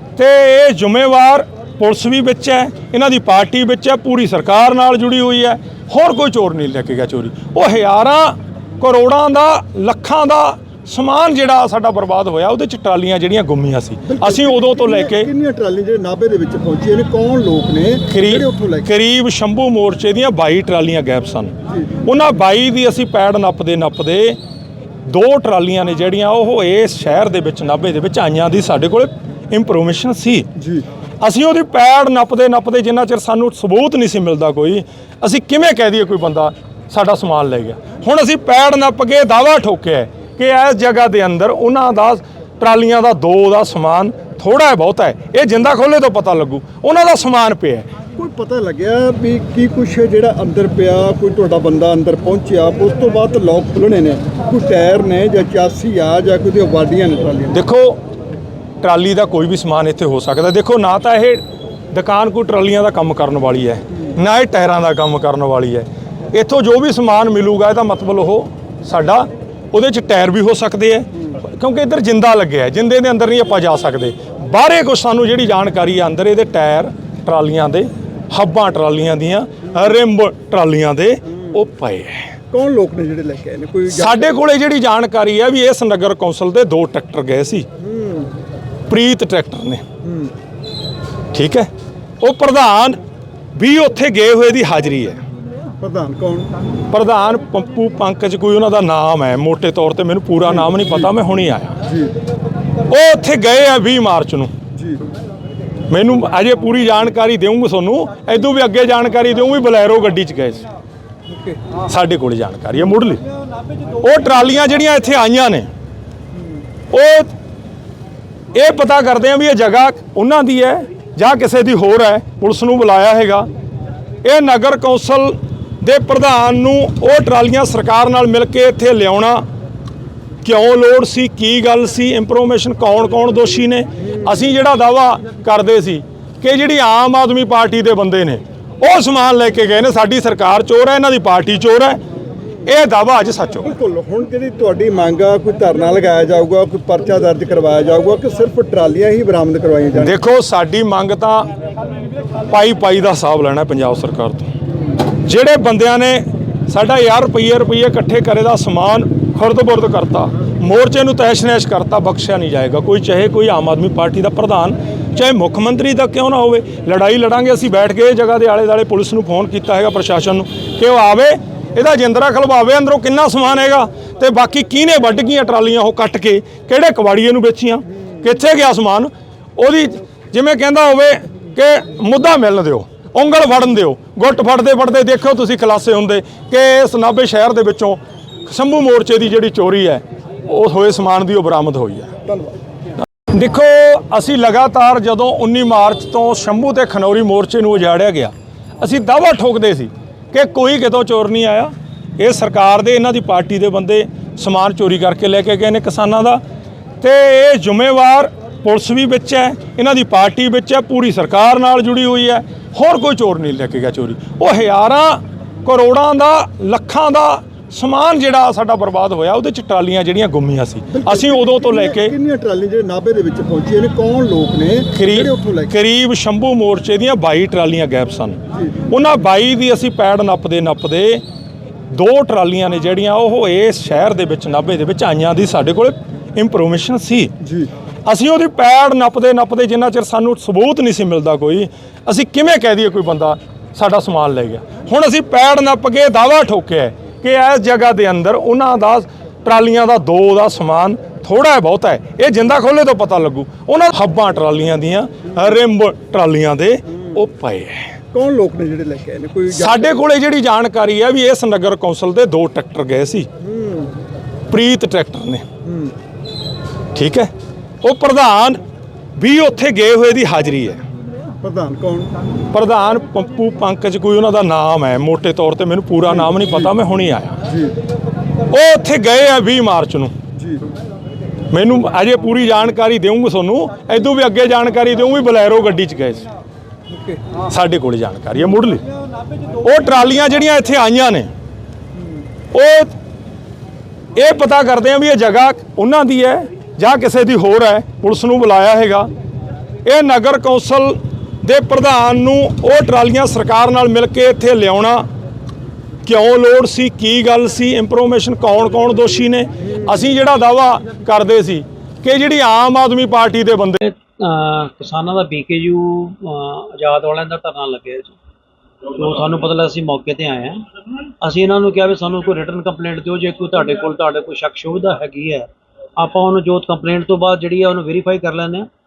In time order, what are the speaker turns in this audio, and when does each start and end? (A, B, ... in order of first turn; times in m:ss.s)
0:00.2-0:15.3 A
0:14.1-0:18.9 B
0:18.1-0:24.4 A
0:25.0-0:30.5 A
0:30.6-0:30.8 B
0:31.2-0:47.9 A
0:48.2-0:57.6 B
0:57.5-0:58.0 A
0:58.8-1:22.3 A
1:22.5-1:24.3 B
1:23.9-1:27.7 A
1:27.8-1:28.3 B
1:28.9-1:29.8 A
1:30.0-1:30.3 B
1:31.3-1:31.7 A
1:32.2-1:33.0 A
1:33.6-1:35.2 A
1:35.8-1:36.5 B
1:36.9-1:41.8 A
1:42.9-1:44.5 A
1:44.8-1:45.0 B
1:45.9-1:50.6 A
1:51.3-1:51.6 B
1:51.9-1:53.2 A
1:54.0-1:55.7 A
1:56.9-1:57.3 A
1:58.5-2:03.5 A
2:04.2-2:09.4 A
2:10.4-2:22.0 A
2:22.6-2:23.7 A
2:23.6-2:30.1 B
2:30.0-2:31.5 A
2:32.5-2:34.5 A
2:35.2-3:12.1 A
3:12.3-3:12.5 B
3:13.3-3:26.4 A
3:27.0-3:42.1 A
3:40.9-3:45.7 B
3:44.9-3:51.2 A
3:51.9-3:57.3 A
3:57.4-3:57.7 B
3:58.1-4:17.9 A
4:18.1-4:20.0 B
4:19.5-4:23.3 A
4:23.4-4:23.9 B
4:24.5-4:25.4 A
4:25.6-4:25.9 B
4:26.9-4:27.3 A
4:27.8-4:28.6 A
4:29.2-4:30.8 A
4:31.4-4:32.1 B
4:32.5-4:37.4 A
4:37.5-4:37.7 B
4:38.5-4:40.1 A
4:40.4-4:40.6 B
4:41.5-4:46.3 A
4:46.9-4:47.2 B
4:47.5-4:48.8 A
4:49.6-4:51.3 A
4:52.5-4:52.9 A
4:54.2-4:59.1 A
4:59.8-5:05.1 A
5:06.0-5:13.8 A
5:13.8-5:18.2 C
5:18.9-5:20.6 C
5:21.2-5:28.7 C